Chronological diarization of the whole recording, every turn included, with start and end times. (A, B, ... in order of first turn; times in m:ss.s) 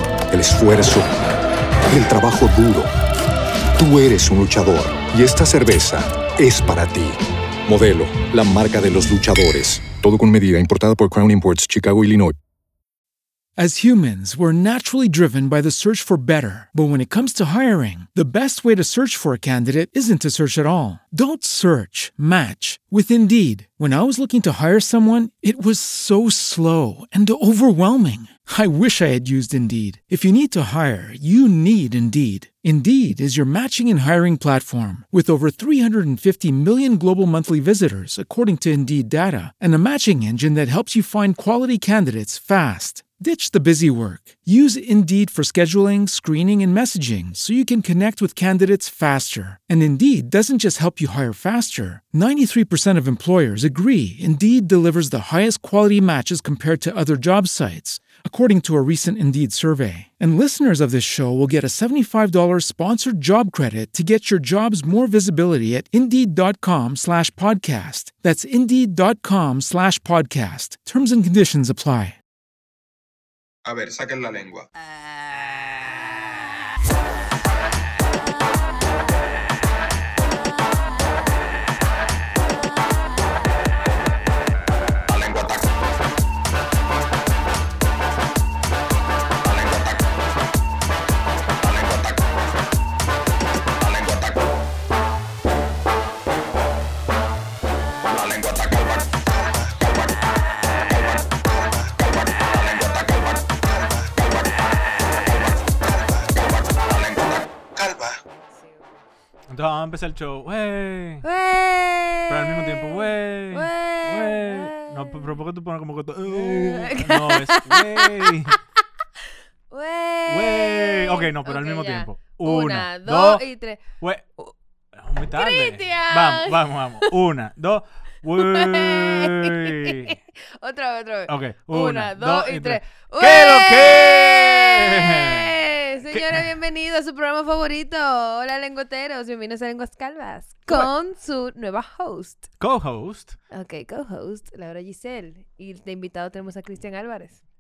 0:00.3-0:01.2 A
0:01.9-0:02.9 A
0:03.8-0:12.4 A
0:13.6-1:12.2 B
1:13.6-1:14.7 C
1:25.1-1:25.7 C
1:29.5-1:29.9 C
1:33.8-1:34.3 C
1:38.1-1:40.1 C
1:41.3-1:44.6 C
1:45.6-1:48.2 C
1:49.5-1:51.2 D
1:51.2-1:55.3 E
1:52.3-1:58.6 D
1:56.3-1:58.5 E
1:59.7-2:03.8 E
2:00.3-2:04.3 D
2:05.0-2:10.2 D
2:05.3-2:07.1 E
2:08.4-2:22.5 E
2:11.3-2:15.5 D
2:16.1-2:16.4 D
2:22.6-2:23.4 D
2:23.5-2:27.4 E